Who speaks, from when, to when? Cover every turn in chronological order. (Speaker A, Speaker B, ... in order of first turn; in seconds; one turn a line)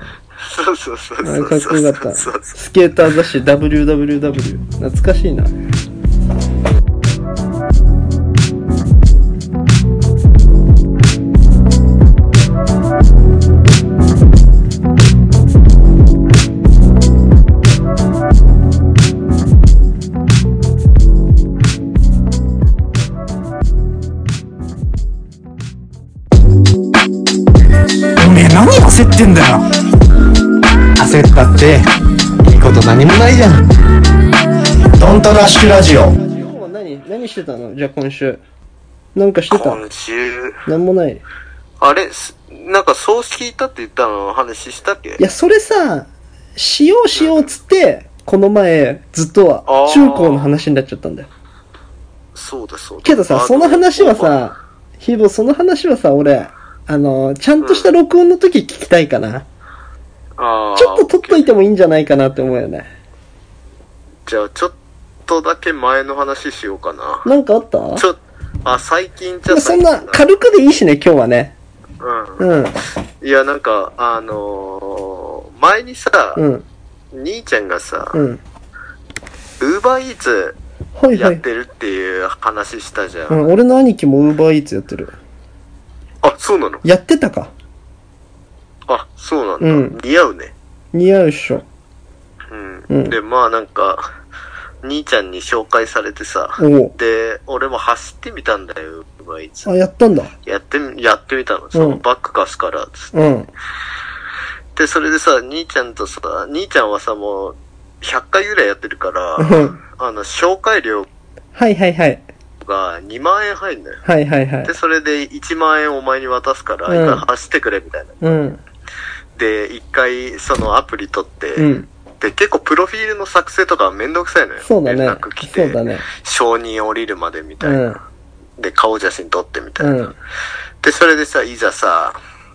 Speaker A: 0.4-2.6
Speaker B: 1.2-5.5
Speaker C: 28.2-29.6
Speaker C: 31.0-31.9
Speaker C: 32.5-33.6
Speaker C: 35.0-36.1
Speaker B: 36.1-38.4
Speaker B: 39.1-39.8
Speaker A: 39.5-40.6
Speaker B: 40.7-41.2
Speaker A: 41.8-45.2
Speaker B: 45.2-51.3
Speaker A: 47.1-47.5
Speaker A: 49.7-50.5
Speaker A: 52.4-54.4
Speaker B: 53.0-59.5
Speaker A: 57.6-57.9
Speaker A: 60.4-61.5
Speaker B: 60.8-62.9
Speaker A: 64.3-64.8
Speaker A: 65.3-67.3
Speaker B: 67.2-68.0
Speaker A: 68.0-70.2
Speaker B: 69.5-71.5
Speaker A: 72.0-72.5
Speaker B: 72.4-72.8
Speaker A: 73.2-76.4
Speaker B: 76.4-76.7
Speaker A: 77.1-78.2
Speaker B: 78.1-78.4
Speaker A: 79.6-80.6
Speaker B: 81.0-81.4
Speaker A: 81.1-83.4
Speaker B: 83.3-85.2
Speaker A: 86.2-86.8
Speaker B: 86.8-87.5
Speaker A: 88.9-90.5
Speaker B: 89.6-90.0
Speaker B: 90.9-91.7
Speaker A: 92.5-94.1
Speaker B: 92.9-93.2
Speaker A: 94.8-99.7
Speaker B: 96.6-96.9
Speaker B: 99.7-100.3
Speaker A: 100.5-103.1
Speaker B: 101.8-102.0
Speaker B: 103.1-103.5
Speaker A: 104.8-111.1
Speaker B: 109.4-109.8
Speaker B: 111.6-112.2
Speaker A: 112.6-114.0
Speaker B: 114.0-114.7
Speaker A: 114.6-118.2
Speaker B: 116.9-117.2
Speaker B: 118.2-118.6
Speaker A: 119.4-128.0
Speaker B: 121.6-121.9
Speaker B: 124.6-126.1
Speaker B: 127.6-128.0
Speaker A: 128.6-130.1
Speaker B: 129.8-130.1
Speaker A: 130.8-132.2